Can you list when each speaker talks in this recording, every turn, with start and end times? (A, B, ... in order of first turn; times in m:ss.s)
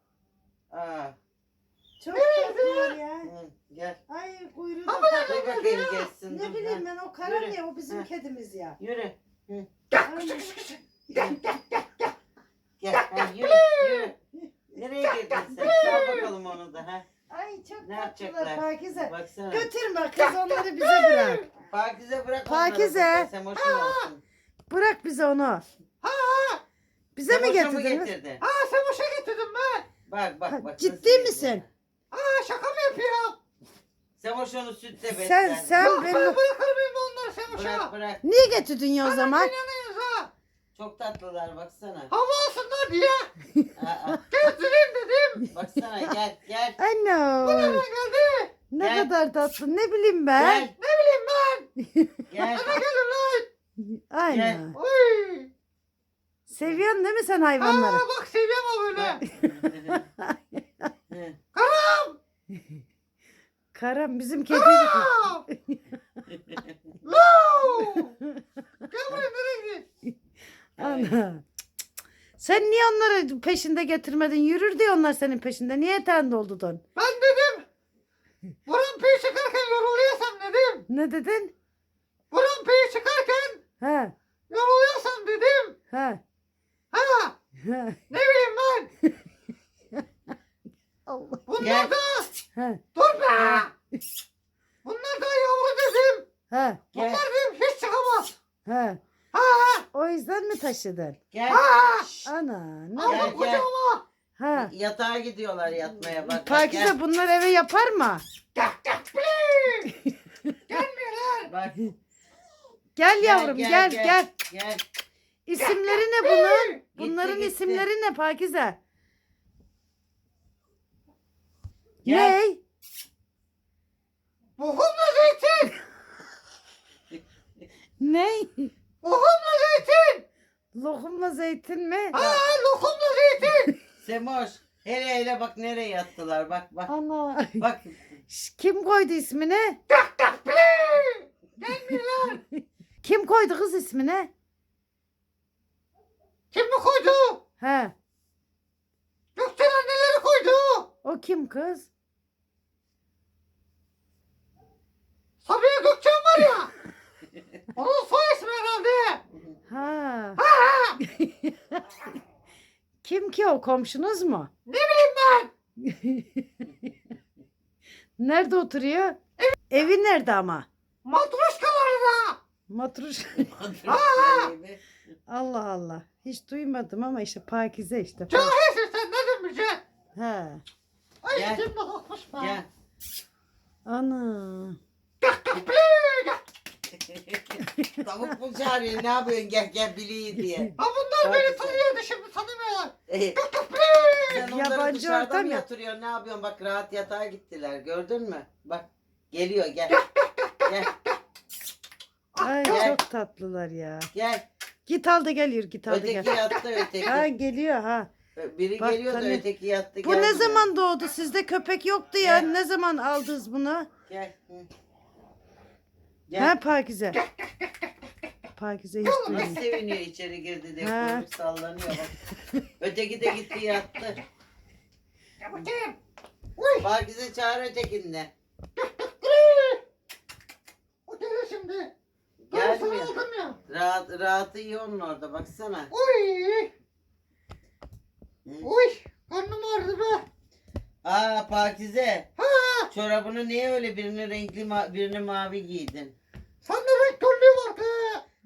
0:00.7-0:01.2 A
0:02.0-0:03.3 B
0:02.1-0:03.0 C
0:03.2-0:04.0 A
0:04.1-0:05.5 B
0:04.8-0:06.1 C
0:05.2-0:08.1 A
0:06.3-0:08.8 B
0:08.8-0:09.7 A
0:09.9-0:11.8 C
0:10.0-0:10.6 B
0:11.1-0:11.4 A
0:12.8-0:14.1 A
0:12.9-0:14.1 C
0:14.7-0:17.0 A
0:15.0-0:16.3 C
0:15.4-0:16.3 B
0:17.3-0:21.4 B
0:17.8-0:19.7 A
0:20.2-0:21.5 C
0:21.6-0:24.2 A
0:22.4-0:23.3 B
0:23.5-0:24.1 C
0:24.7-0:25.6 B
0:26.0-0:26.6 C
0:27.1-0:28.1 B
0:27.3-0:28.4 A
0:28.4-0:29.8 C
0:30.1-0:31.7 A
0:30.5-0:31.6 B
0:32.1-0:33.4 C
0:34.2-0:36.0 A
0:35.1-0:36.4 B
0:35.8-0:37.9 C
0:37.5-0:38.2 A
0:38.2-0:39.5 B
0:39.0-0:40.3 C
0:40.7-0:42.1 A
0:42.1-0:43.3 C
0:43.8-0:44.2 A
0:44.3-0:45.5 C
0:45.5-0:46.8 A
0:46.8-0:47.8 B
0:47.4-0:48.5 C
0:48.7-0:50.7 B
0:48.8-0:49.1 A
0:50.4-0:50.7 A
0:50.8-0:51.7 C
0:51.8-0:52.2 B
0:52.3-0:52.8 A
0:52.5-0:53.5 C
0:53.8-0:54.8 B
0:54.3-0:54.6 A
0:54.7-0:55.5 C
0:56.5-0:58.0 B
0:57.6-0:59.2 C
0:58.9-1:00.0 A
0:59.2-1:00.3 B
1:01.1-1:01.4 A
1:01.5-1:02.2 C
1:03.7-1:05.8 B
1:04.5-1:05.4 C
1:07.0-1:08.1 C
1:08.9-1:09.8 C
1:10.8-1:11.4 B
1:10.8-1:11.2 A
1:12.4-1:16.8 B
1:17.0-1:17.6 C
1:18.6-1:20.8 C
1:20.9-1:21.5 B
1:22.3-1:23.6 C
1:23.8-1:24.1 B
1:24.5-1:25.7 C
1:25.9-1:26.2 B
1:26.9-1:27.3 C
1:27.6-1:28.0 B
1:28.1-1:28.9 C
1:31.1-1:31.4 B
1:31.5-1:32.4 C
1:31.6-1:31.9 A
1:32.5-1:32.8 B
1:32.9-1:33.7 C
1:33.4-1:33.6 B
1:34.8-1:36.2 C
1:36.5-1:36.8 B
1:36.9-1:38.4 C
1:36.9-1:37.2 A
1:38.6-1:39.0 B
1:39.3-1:39.8 C
1:39.9-1:41.2 B
1:41.3-1:41.7 A
1:41.5-1:42.3 C
1:42.2-1:43.4 B
1:43.0-1:44.0 C
1:43.0-1:43.7 A
1:44.4-1:44.7 B
1:44.5-1:47.0 A
1:46.3-1:48.2 B
1:48.6-1:49.9 C
1:49.9-1:50.5 B
1:50.7-1:51.5 C
1:51.4-1:51.8 A
1:53.0-1:54.3 B
1:53.2-1:54.8 A
1:55.4-1:58.8 B
1:55.6-1:56.8 C
1:56.9-1:57.9 A
2:02.0-2:02.4 A
2:02.0-2:02.6 B
2:04.6-2:05.8 C
2:08.0-2:08.7 B
2:09.0-2:10.2 C
2:10.7-2:12.2 B
2:12.1-2:13.7 C
2:12.1-2:12.4 A
2:14.0-2:16.9 A
2:16.9-2:17.6 B
2:17.6-2:18.0 A
2:18.3-2:19.8 B
2:19.9-2:22.4 C
2:22.2-2:24.3 B
2:26.5-2:27.4 C
2:27.6-2:27.9 B
2:29.4-2:30.9 C
2:31.0-2:31.9 B
2:35.4-2:36.7 C
2:37.7-2:39.2 C
2:39.7-2:40.4 B
2:40.4-2:41.0 C
2:41.0-2:41.8 B
2:43.0-2:44.5 B
2:44.7-2:45.5 C
2:45.8-2:46.6 B
2:48.2-2:49.2 B
2:49.7-2:50.7 B
2:51.0-2:52.4 C
2:52.7-2:53.5 B
2:53.4-2:54.8 A
2:53.9-2:54.5 C
2:55.3-2:58.6 B
2:58.3-2:59.8 C
3:00.1-3:00.6 B
3:01.2-3:02.6 C
3:01.3-3:01.6 A
3:02.4-3:02.7 A
3:03.8-3:04.8 B
3:05.2-3:06.4 C
3:06.9-3:11.8 A
3:07.7-3:08.0 B
3:10.8-3:14.4 C
3:13.1-3:13.4 A
3:14.3-3:20.0 A
3:14.3-3:15.6 B
3:19.9-3:20.7 C
3:20.6-3:20.9 A
3:22.3-3:22.9 C
3:22.4-3:24.1 B
3:22.7-3:23.0 A
3:24.1-3:24.4 A
3:24.8-3:26.5 B
3:25.9-3:27.3 A
3:27.0-3:28.1 B
3:28.4-3:30.7 A
3:28.8-3:29.4 B
3:30.0-3:33.9 B
3:32.2-3:32.5 A
3:34.1-3:34.7 A
3:36.3-3:36.5 A
3:36.4-3:37.2 B
3:38.5-3:39.6 B
3:39.0-3:39.8 C
3:39.3-3:42.1 A
3:40.8-3:41.2 B
3:42.8-3:44.2 A
3:45.4-3:46.0 C
3:46.6-3:46.9 C
3:46.8-3:48.3 A
3:48.8-3:49.8 C
3:51.0-3:51.9 C
3:52.4-3:55.9 A
3:52.5-3:53.6 C
3:55.9-3:56.7 C
3:58.4-3:58.7 A
3:58.6-4:00.2 C
4:01.0-4:02.3 A
4:02.4-4:02.9 C
4:02.9-4:06.1 A
4:06.6-4:08.2 C